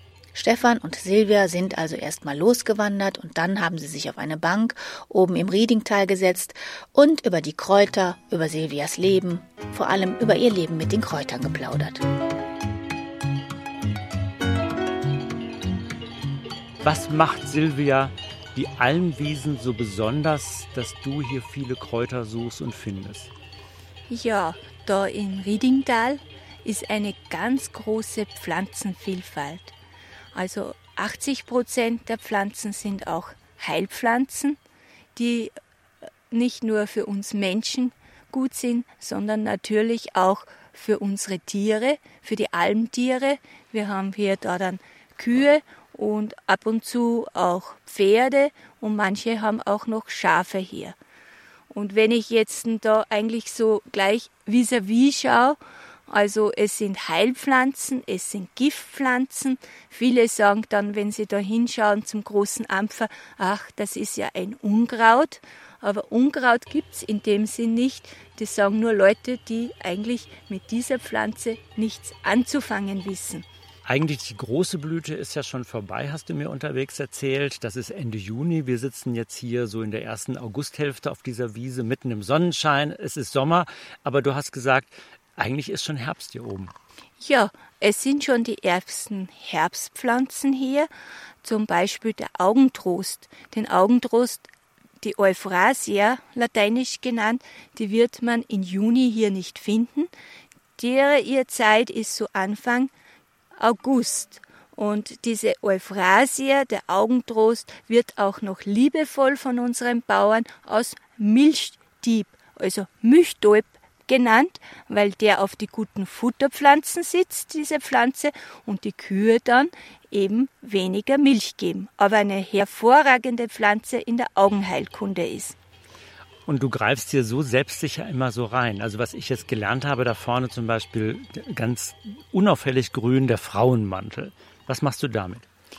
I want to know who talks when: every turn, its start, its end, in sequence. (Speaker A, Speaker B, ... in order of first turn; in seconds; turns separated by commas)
Speaker A: 0.3-12.0, Speaker B: 16.8-23.3, Speaker C: 24.1-29.7, Speaker C: 30.3-34.6, Speaker C: 35.1-35.5, Speaker C: 36.3-51.0, Speaker C: 51.7-73.4, Speaker B: 73.8-86.7, Speaker C: 87.2-90.9, Speaker C: 91.4-94.5, Speaker C: 95.0-100.1, Speaker C: 100.8-102.9, Speaker C: 103.6-125.5, Speaker B: 126.5-135.4